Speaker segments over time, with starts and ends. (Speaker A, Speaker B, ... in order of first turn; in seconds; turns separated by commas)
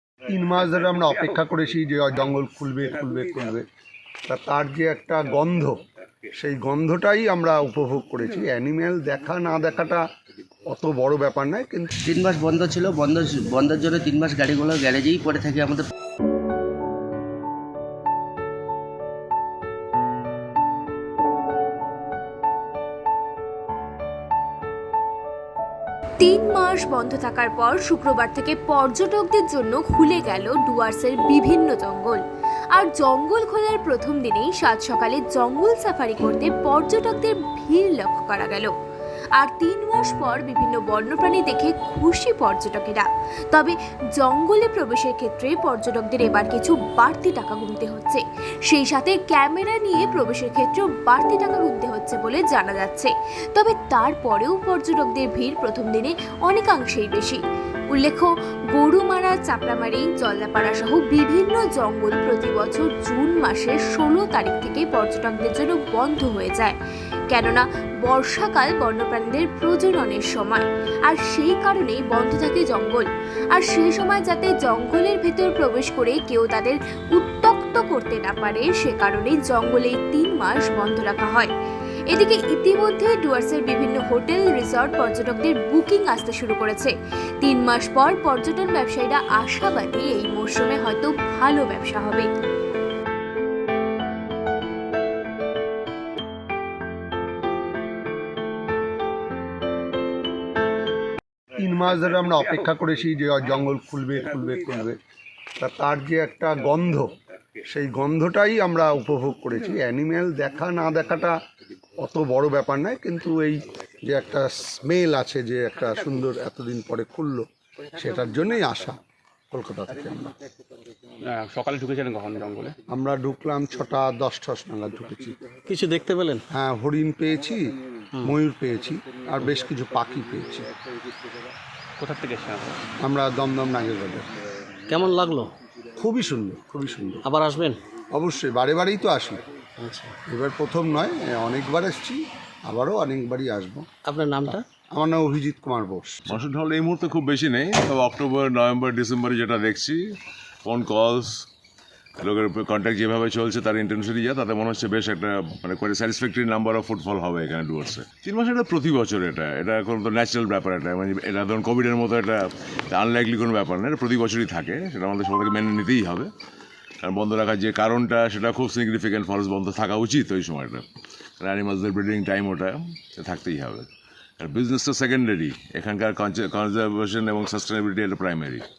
Speaker A: 0.3-3.6, Speaker A: 4.3-5.8, Speaker A: 6.3-10.0, Speaker A: 10.7-11.9, Speaker B: 12.1-15.9, Speaker C: 26.2-32.2, Speaker C: 32.7-38.7, Speaker C: 39.4-57.4, Speaker C: 57.9-66.8, Speaker C: 67.3-81.5, Speaker C: 82.1-92.3, Speaker A: 101.6-105.0, Speaker A: 105.6-107.1, Speaker A: 107.6-111.3, Speaker A: 112.0-119.0, Speaker A: 119.5-120.3, Speaker D: 121.2-122.8, Speaker A: 122.9-125.3, Speaker E: 125.7-126.4, Speaker A: 126.5-130.7, Speaker D: 132.0-132.8, Speaker A: 133.0-134.2, Speaker E: 134.9-135.5, Speaker A: 136.0-137.2, Speaker E: 137.2-137.8, Speaker A: 138.1-139.4, Speaker E: 139.8-140.1, Speaker A: 140.3-143.8, Speaker E: 144.1-144.6, Speaker A: 144.5-146.3, Speaker F: 146.3-150.0, Speaker F: 150.6-151.4, Speaker F: 152.2-166.3, Speaker F: 167.0-170.8, Speaker F: 171.4-173.9, Speaker F: 174.4-178.6